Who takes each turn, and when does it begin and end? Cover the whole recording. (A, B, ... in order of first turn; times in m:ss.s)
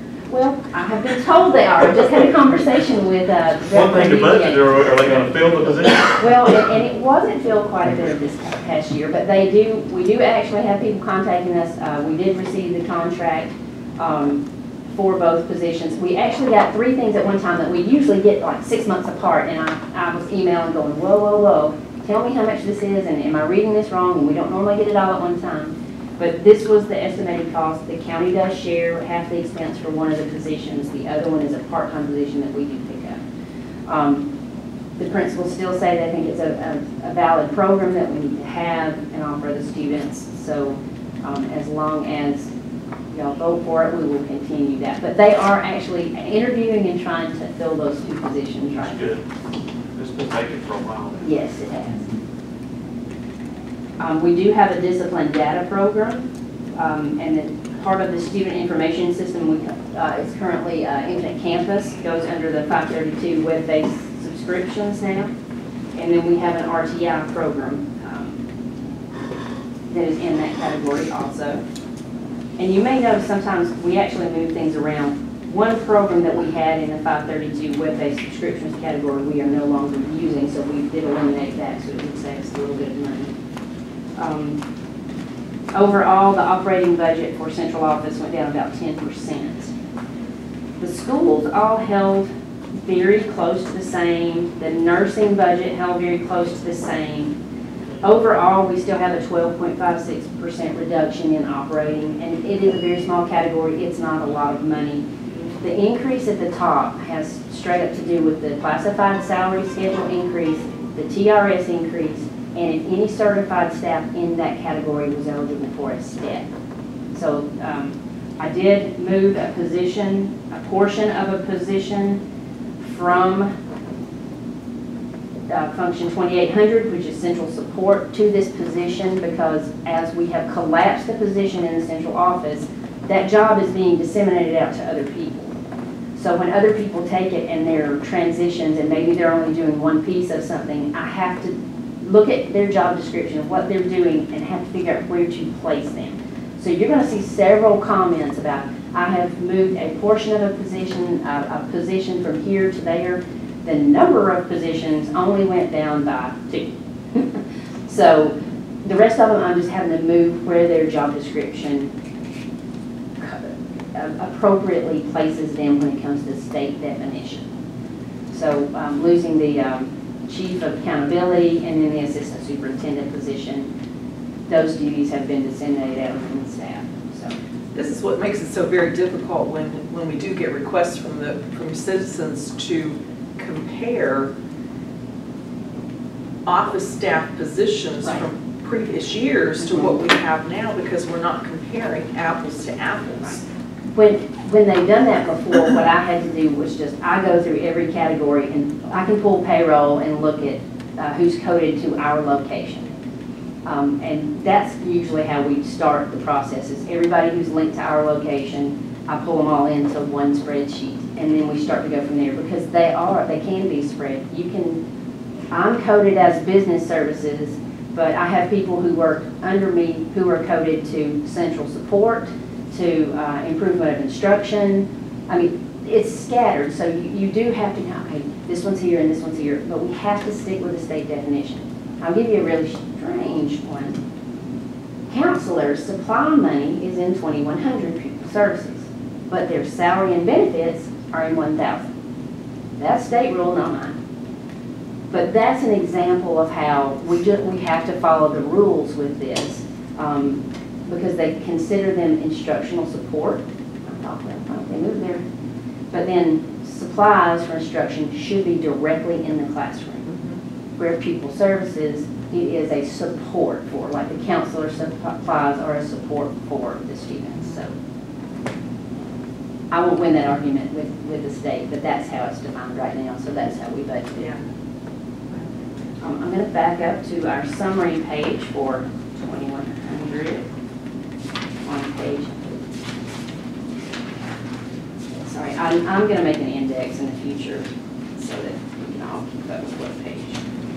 0:00.3-0:33.2 A
0:03.7-0:06.2 B
0:33.9-0:34.3 A
0:34.9-0:42.5 A
0:43.1-0:49.1 A
0:48.7-0:49.2 B
0:49.9-0:51.3 B
0:51.2-0:52.1 A
0:54.0-1:05.3 A
1:05.9-1:08.4 A
1:09.9-1:11.6 A
1:12.6-1:23.3 A
1:24.2-1:24.6 A
1:25.7-1:29.7 A
1:30.8-1:37.4 A
1:38.0-1:45.0 A
1:45.6-1:56.5 A
1:57.1-2:02.2 A
2:02.8-2:03.5 A
2:05.5-2:15.6 A
2:16.1-2:41.9 A
2:43.2-2:47.5 A
2:48.3-2:53.7 A
2:54.5-2:57.4 A
2:57.7-3:04.3 C
3:06.4-3:13.4 C
3:09.6-3:10.0 A
3:13.9-3:22.9 A
3:23.6-3:34.8 A
3:35.5-3:54.0 A
3:55.1-4:01.9 A
4:02.8-4:04.0 A
4:05.1-4:15.2 A
4:15.9-4:20.1 A
4:20.1-4:20.4 C
4:20.8-4:27.7 A
4:29.7-4:34.2 A
4:34.2-4:34.4 C
4:36.0-4:40.5 A
4:41.6-4:42.6 A
4:45.2-4:50.4 A